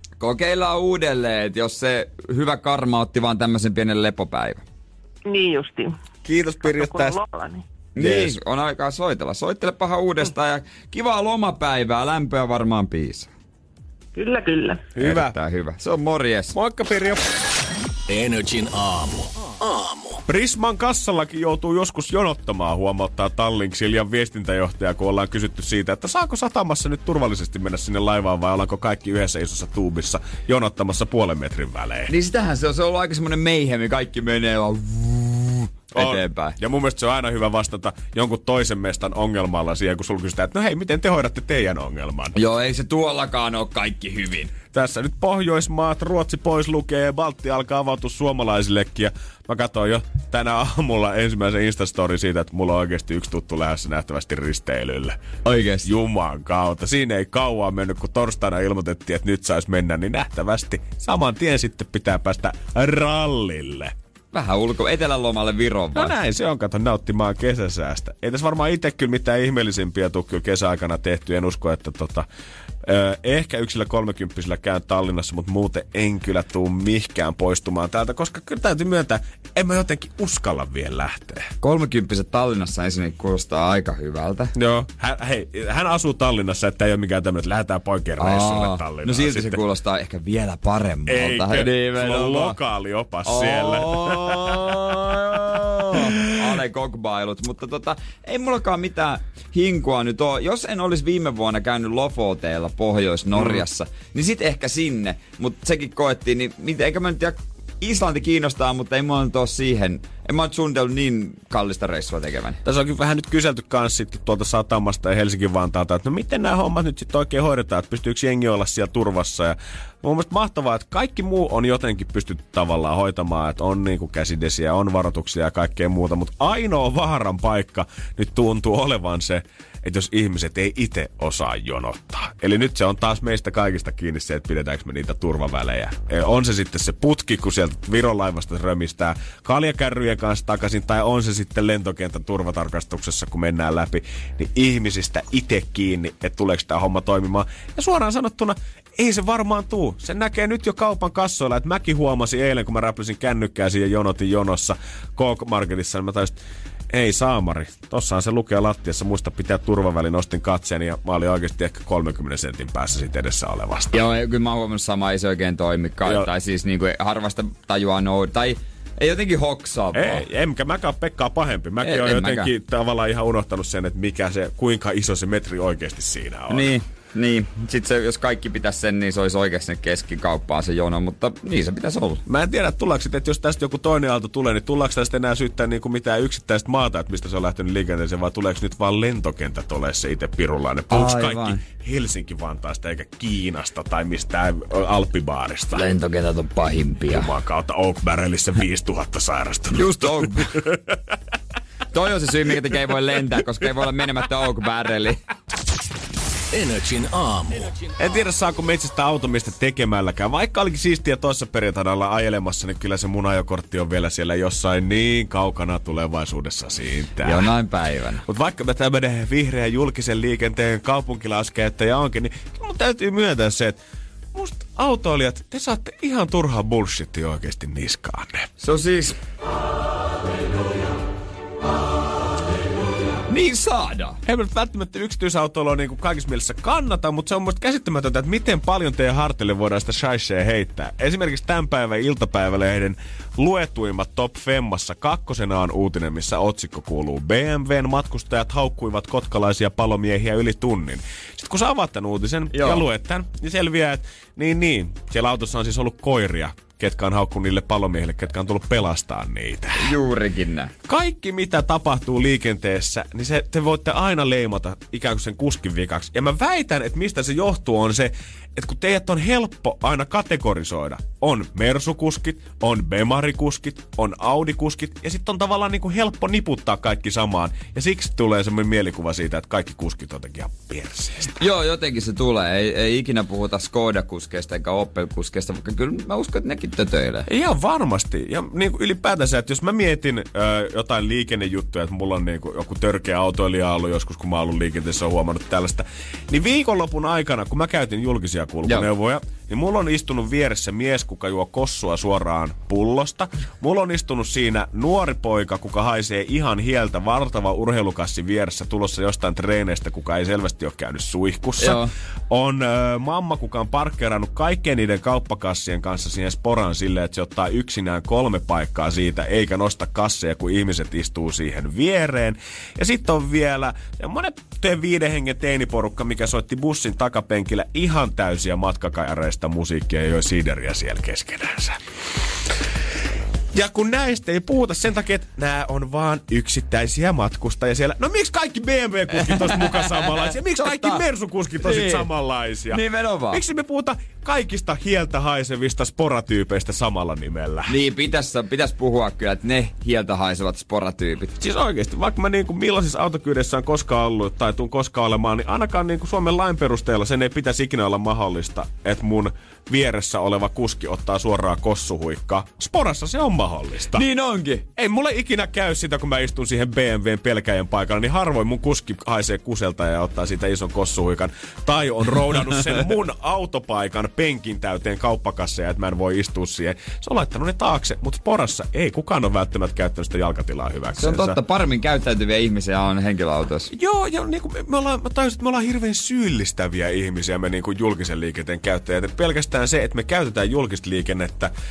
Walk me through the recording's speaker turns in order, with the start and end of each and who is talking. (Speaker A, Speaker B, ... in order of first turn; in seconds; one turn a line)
Speaker A: 0.2-4.6
Speaker B: 5.3-6.0
Speaker C: 6.2-7.2
Speaker B: 6.6-7.6
Speaker A: 8.0-13.3
Speaker C: 8.0-8.4
Speaker B: 14.1-14.9
Speaker C: 14.9-15.4
Speaker A: 15.0-16.6
Speaker C: 16.6-17.2
Speaker D: 18.1-20.2
Speaker C: 20.3-32.1
Speaker A: 32.1-36.6
Speaker C: 35.9-42.3
Speaker A: 42.3-44.5
Speaker C: 44.7-55.2
Speaker A: 55.4-55.9
Speaker C: 55.8-63.9
Speaker A: 64.3-66.1
Speaker C: 65.9-72.3
Speaker C: 72.8-81.5
Speaker A: 81.6-84.5
Speaker C: 84.5-89.6
Speaker A: 88.2-92.6
Speaker C: 91.1-96.2
Speaker A: 93.2-112.6
Speaker C: 103.4-103.6
Speaker C: 112.6-156.4
Speaker C: 156.9-164.0
Speaker A: 163.9-170.2
Speaker C: 169.9-176.7
Speaker A: 171.8-172.5
Speaker A: 176.5-182.2
Speaker C: 182.3-195.9
Speaker A: 190.9-191.6
Speaker A: 195.7-197.3
Speaker C: 197.1-200.9
Speaker A: 199.7-200.6
Speaker A: 201.9-205.2
Speaker D: 206.5-207.9
Speaker C: 208.0-217.5
Speaker A: 217.2-218.2
Speaker C: 218.2-223.8
Speaker C: 224.3-228.5
Speaker A: 228.6-229.2
Speaker A: 233.3-234.2
Speaker C: 234.3-259.9
Speaker A: 252.5-252.8
Speaker A: 259.8-260.7
Speaker C: 260.9-281.4
Speaker A: 281.4-287.3
Speaker C: 287.3-331.8
Speaker A: 311.6-311.9
Speaker C: 333.5-342.8
Speaker A: 339.2-341.0
Speaker A: 341.6-342.1
Speaker A: 342.7-343.4
Speaker C: 343.3-347.7
Speaker A: 347.7-351.3
Speaker C: 351.4-364.0
Speaker A: 363.9-364.6
Speaker C: 364.8-381.4
Speaker A: 381.0-383.7
Speaker C: 383.7-391.5